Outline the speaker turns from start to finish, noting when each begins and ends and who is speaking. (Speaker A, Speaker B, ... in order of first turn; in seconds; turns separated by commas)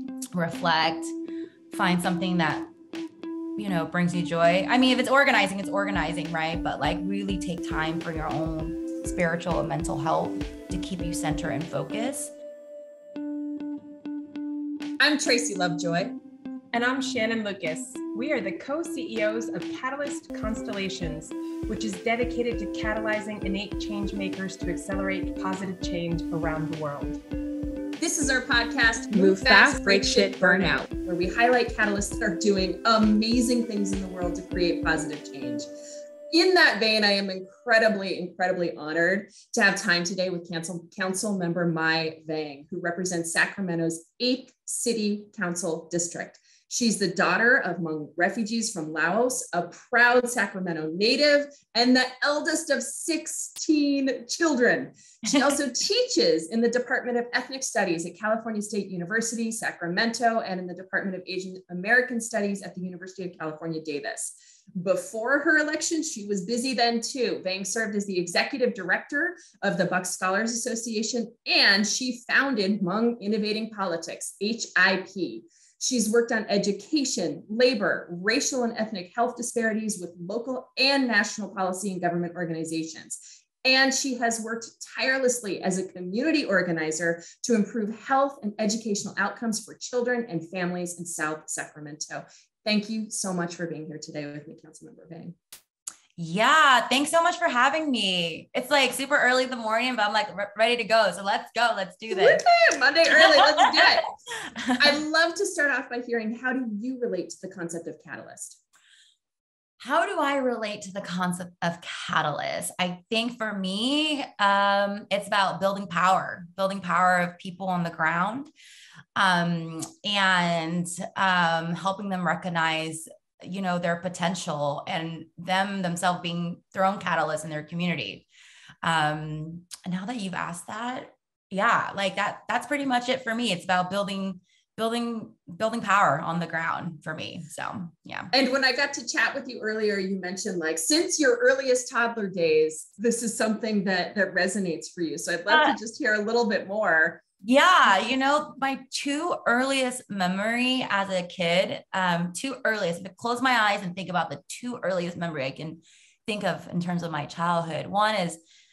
Speaker A: 0.3-1.1, Speaker A: 1.7-2.7, Speaker A: 3.6-12.3, Speaker B: 15.0-16.2, Speaker C: 16.7-27.2, Speaker B: 28.0-35.7, Speaker C: 29.1-30.8, Speaker B: 36.3-95.3, Speaker A: 55.2-55.6, Speaker A: 96.2-102.4, Speaker B: 102.1-104.1, Speaker A: 103.2-103.8, Speaker A: 104.5-104.9, Speaker B: 104.8-108.6, Speaker A: 109.8-118.5, Speaker A: 119.2-128.3, Speaker A: 128.8-138.3, Speaker B: 138.3-147.2, Speaker A: 145.5-145.8, Speaker A: 147.4-158.4